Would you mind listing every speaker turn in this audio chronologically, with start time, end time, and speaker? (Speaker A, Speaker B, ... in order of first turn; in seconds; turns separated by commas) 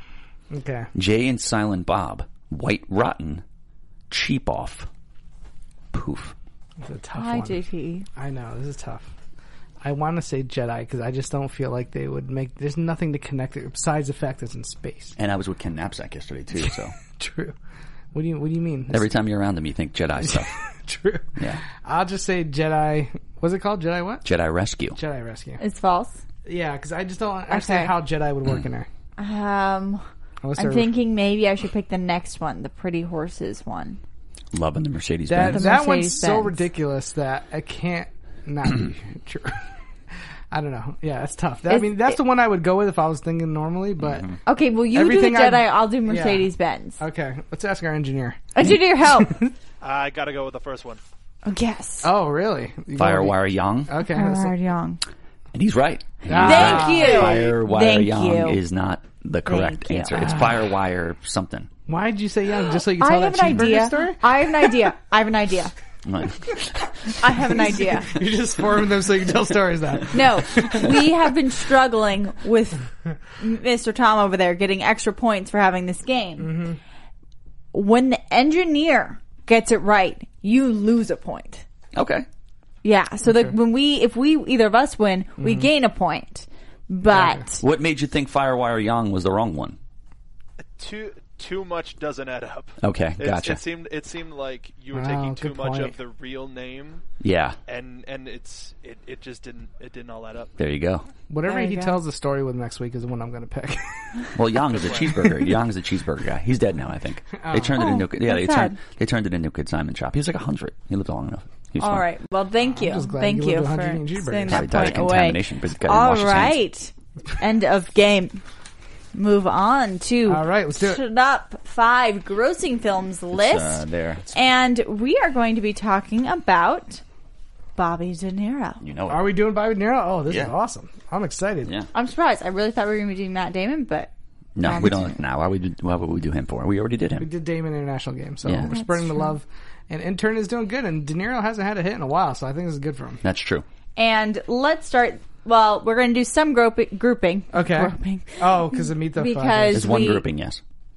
Speaker A: 0.5-0.9, Speaker B: 0.9-3.4, Speaker B: 4.1-4.9, Speaker B: 5.9-6.3, Speaker A: 6.8-7.6, Speaker C: 7.2-8.1, Speaker A: 8.2-9.1, Speaker A: 9.8-15.2, Speaker B: 15.2-16.9, Speaker A: 17.1-17.6, Speaker A: 18.1-19.1, Speaker B: 18.9-20.5, Speaker A: 20.3-24.2, Speaker B: 21.4-21.6, Speaker B: 24.2-25.0, Speaker A: 24.9-25.6, Speaker C: 25.6-26.2, Speaker A: 26.4-28.9, Speaker C: 27.5-27.9, Speaker C: 29.2-30.0, Speaker A: 30.4-30.9, Speaker C: 30.6-34.0, Speaker B: 34.5-35.7, Speaker A: 35.3-39.6, Speaker C: 35.4-36.6, Speaker A: 40.5-44.3, Speaker C: 41.7-42.1, Speaker B: 44.0-44.4, Speaker C: 44.4-47.0, Speaker A: 44.9-49.5, Speaker C: 48.5-49.4, Speaker D: 49.8-51.0, Speaker C: 51.4-52.1, Speaker A: 52.0-54.5, Speaker B: 53.0-53.9, Speaker C: 54.0-55.0, Speaker B: 55.5-61.7, Speaker A: 56.3-57.4, Speaker C: 56.3-58.6, Speaker C: 59.5-60.4, Speaker A: 60.1-60.5, Speaker A: 61.9-64.8, Speaker C: 62.9-65.7, Speaker B: 66.0-66.9, Speaker C: 67.2-68.1, Speaker A: 67.4-71.0, Speaker C: 70.1-72.8, Speaker C: 73.4-76.7, Speaker A: 76.4-76.8, Speaker C: 77.7-81.6, Speaker B: 81.9-82.2, Speaker C: 82.8-87.6, Speaker A: 85.4-85.7, Speaker B: 87.6-89.8, Speaker D: 90.8-97.0, Speaker B: 92.8-93.6, Speaker A: 94.9-95.9, Speaker B: 97.2-97.6, Speaker D: 97.7-100.5, Speaker B: 100.6-101.0, Speaker A: 101.3-104.0, Speaker C: 101.4-102.0, Speaker B: 104.3-112.0, Speaker D: 104.7-105.1, Speaker A: 107.4-107.8, Speaker C: 107.7-108.8, Speaker C: 111.8-118.4, Speaker A: 112.7-114.9, Speaker B: 114.5-116.6, Speaker C: 119.1-127.0, Speaker A: 120.2-121.0, Speaker B: 123.3-124.3, Speaker C: 127.8-128.8, Speaker B: 128.8-129.3, Speaker A: 129.1-131.7, Speaker B: 130.3-130.5, Speaker C: 131.9-134.1, Speaker B: 134.6-137.3, Speaker C: 134.6-135.1, Speaker A: 137.2-143.2, Speaker B: 138.4-138.7, Speaker C: 138.7-139.3, Speaker B: 143.2-143.6, Speaker C: 143.9-150.2, Speaker A: 147.5-149.9, Speaker B: 149.7-150.6